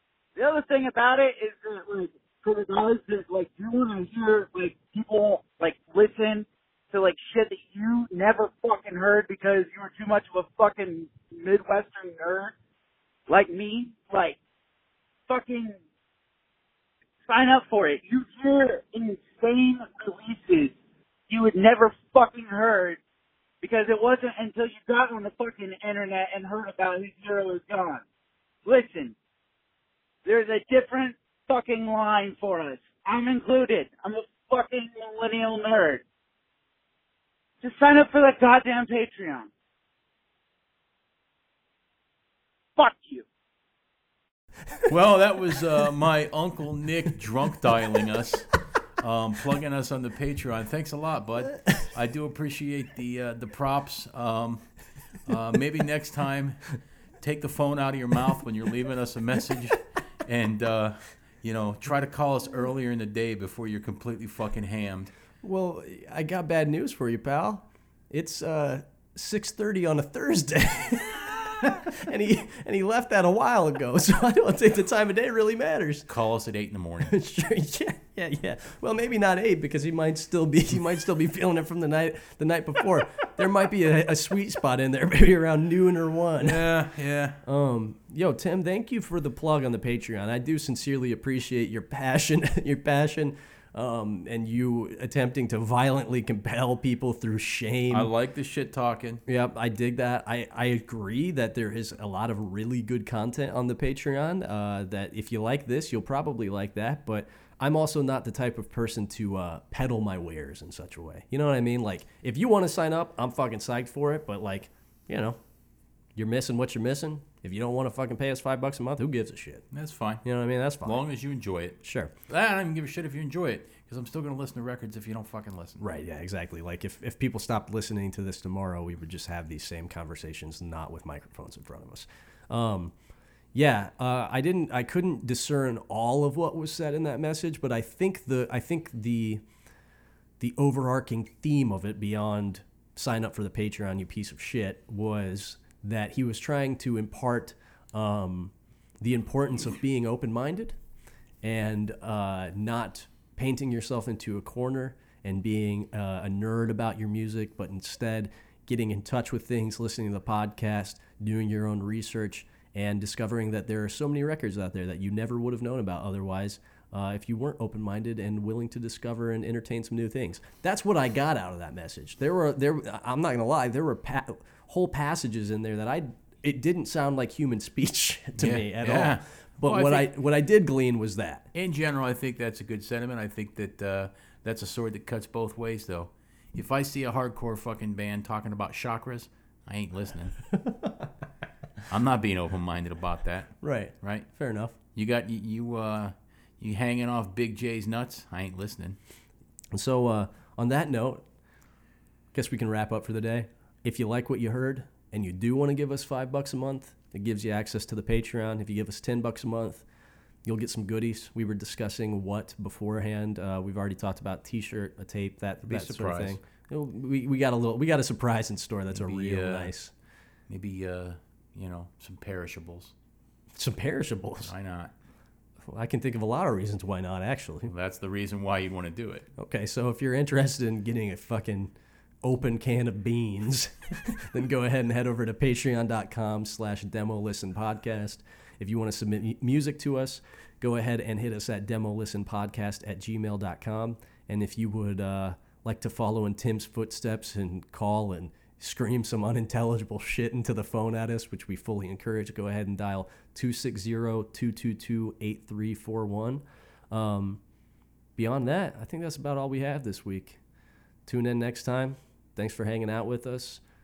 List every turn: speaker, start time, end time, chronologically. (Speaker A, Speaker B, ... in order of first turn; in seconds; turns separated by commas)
Speaker A: 0.4-12.5, Speaker A: 13.3-14.4, Speaker A: 15.3-15.8, Speaker A: 17.3-20.8, Speaker A: 21.3-23.0, Speaker A: 23.6-28.1, Speaker A: 28.6-29.2, Speaker A: 30.2-36.0, Speaker A: 37.6-39.5, Speaker A: 42.8-43.3, Speaker B: 44.9-65.1, Speaker C: 65.4-76.1, Speaker B: 76.1-77.2, Speaker C: 77.0-86.7, Speaker B: 86.4-87.4, Speaker C: 87.5-98.1, Speaker B: 97.9-99.2, Speaker C: 99.3-115.4, Speaker C: 116.2-119.7, Speaker B: 119.7-120.2, Speaker C: 120.2-121.0, Speaker B: 120.8-125.8, Speaker C: 121.8-122.1, Speaker C: 125.8-132.9, Speaker C: 133.5-139.4, Speaker C: 140.4-150.8, Speaker C: 151.4-181.5, Speaker B: 178.4-180.1, Speaker B: 181.5-190.4, Speaker C: 190.5-191.1, Speaker B: 191.9-194.3, Speaker C: 193.6-194.8, Speaker B: 194.9-199.0, Speaker C: 199.7-201.2, Speaker C: 202.3-209.8, Speaker C: 210.4-219.9, Speaker B: 215.6-216.4, Speaker B: 218.9-219.7, Speaker B: 220.5-222.9, Speaker C: 223.6-224.5, Speaker B: 224.4-224.9, Speaker C: 225.7-227.7, Speaker B: 227.7-229.3, Speaker C: 229.4-231.7, Speaker C: 232.2-257.4, Speaker C: 258.2-260.4, Speaker C: 261.1-263.6